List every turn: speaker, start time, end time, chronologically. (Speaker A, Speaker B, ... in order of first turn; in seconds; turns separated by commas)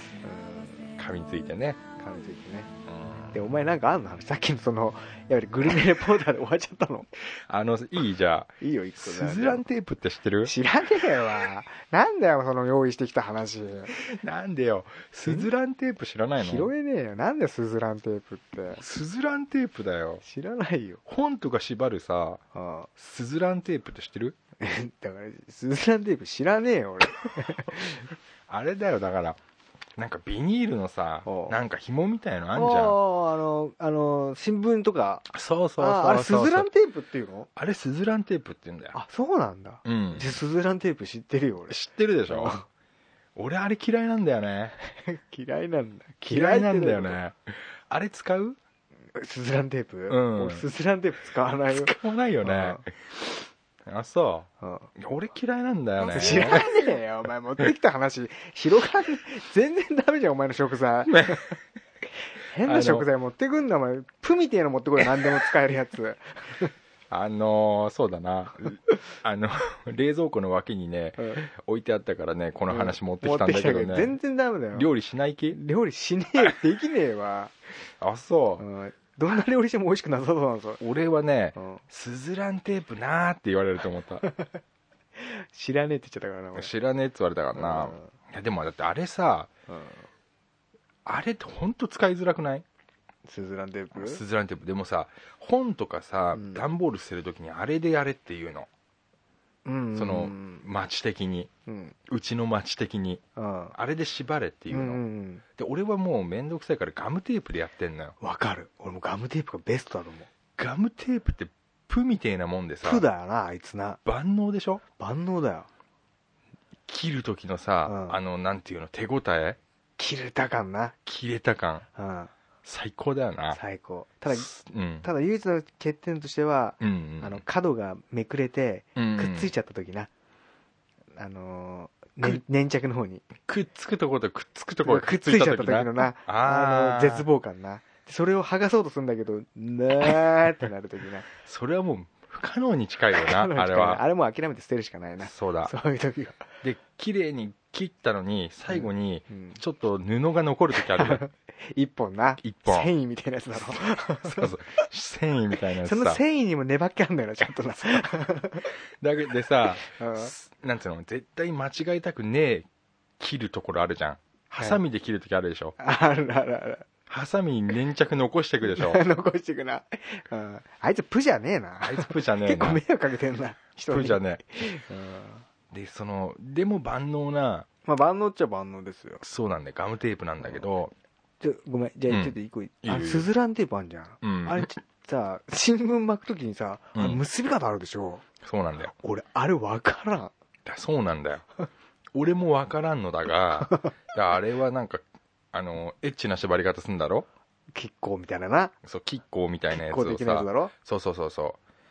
Speaker A: 0.2-0.9, Speaker B: 1.0-1.8, Speaker A: 2.0-2.7, Speaker B: 2.9-3.4, Speaker A: 3.3-7.1, Speaker B: 7.2-10.5, Speaker A: 8.6-9.6, Speaker A: 10.4-13.9, Speaker B: 13.9-16.7, Speaker A: 16.4-18.8, Speaker B: 18.8-20.2, Speaker A: 20.2-21.0, Speaker B: 21.1-22.4, Speaker A: 22.5-22.9, Speaker B: 22.9-24.4, Speaker A: 24.6-28.1, Speaker B: 28.5-29.4, Speaker B: 30.0-33.0, Speaker A: 31.2-31.6, Speaker A: 32.5-35.3, Speaker B: 35.3-36.7, Speaker A: 35.8-37.5, Speaker B: 37.5-39.0, Speaker A: 38.9-42.6, Speaker B: 39.8-40.4, Speaker B: 41.7-42.6, Speaker B: 43.4-44.7, Speaker A: 44.9-47.2, Speaker B: 46.2-48.6, Speaker A: 49.1-52.8, Speaker B: 50.1-50.6, Speaker B: 51.7-56.8, Speaker A: 54.6-54.9, Speaker A: 56.0-61.5, Speaker B: 61.1-61.6, Speaker A: 62.2-66.7, Speaker B: 62.6-63.1, Speaker B: 67.1-74.2, Speaker A: 71.2-71.5, Speaker A: 72.7-74.9, Speaker B: 74.7-75.6, Speaker A: 75.5-77.5, Speaker B: 78.0-78.6, Speaker A: 78.6-80.8, Speaker B: 80.8-84.2, Speaker A: 81.5-81.8, Speaker A: 84.2-84.5, Speaker A: 85.2-86.7, Speaker B: 86.5-89.5, Speaker A: 87.5-88.1, Speaker A: 89.7-90.1, Speaker B: 91.0-92.6, Speaker A: 93.2-94.2, Speaker B: 93.9-98.7, Speaker A: 96.3-96.6, Speaker A: 99.6-100.6, Speaker B: 99.9-101.5, Speaker A: 101.7-102.0, Speaker B: 102.1-103.2, Speaker A: 103.3-103.8, Speaker B: 103.7-105.0, Speaker A: 104.7-105.4, Speaker B: 105.5-108.1, Speaker A: 108.2-110.3, Speaker B: 110.6-113.0, Speaker A: 112.8-114.0, Speaker B: 114.0-114.8, Speaker A: 115.0-115.7, Speaker B: 116.9-119.6, Speaker A: 117.8-118.2, Speaker A: 120.0-121.0, Speaker B: 121.0-121.8, Speaker A: 121.9-122.3, Speaker B: 122.6-123.6, Speaker A: 123.5-124.5, Speaker B: 124.3-125.1, Speaker A: 125.0-130.1, Speaker B: 126.8-127.4, Speaker B: 128.9-129.5, Speaker A: 131.2-133.2, Speaker B: 133.4-137.3, Speaker A: 134.8-141.3, Speaker B: 141.4-144.0, Speaker A: 143.2-146.5, Speaker B: 145.2-145.7, Speaker B: 146.6-151.2, Speaker A: 148.7-149.6, Speaker A: 150.8-154.8, Speaker B: 152.4-152.9, Speaker B: 154.2-156.2, Speaker A: 155.8-158.8, Speaker B: 159.0-162.7, Speaker A: 159.8-160.3, Speaker B: 163.2-165.8, Speaker A: 165.8-166.9, Speaker B: 167.1-169.0, Speaker A: 168.7-175.4, Speaker B: 171.8-172.8, Speaker B: 173.8-174.4, Speaker B: 175.7-177.7, Speaker A: 177.8-179.2, Speaker B: 179.2-180.9, Speaker A: 181.4-188.2, Speaker B: 182.1-183.3, Speaker B: 184.2-184.7, Speaker B: 186.9-187.2, Speaker B: 188.4-188.9, Speaker A: 188.8-190.3, Speaker B: 190.6-191.4, Speaker B: 192.1-197.2, Speaker A: 197.7-198.7, Speaker B: 198.8-201.6, Speaker A: 199.7-200.7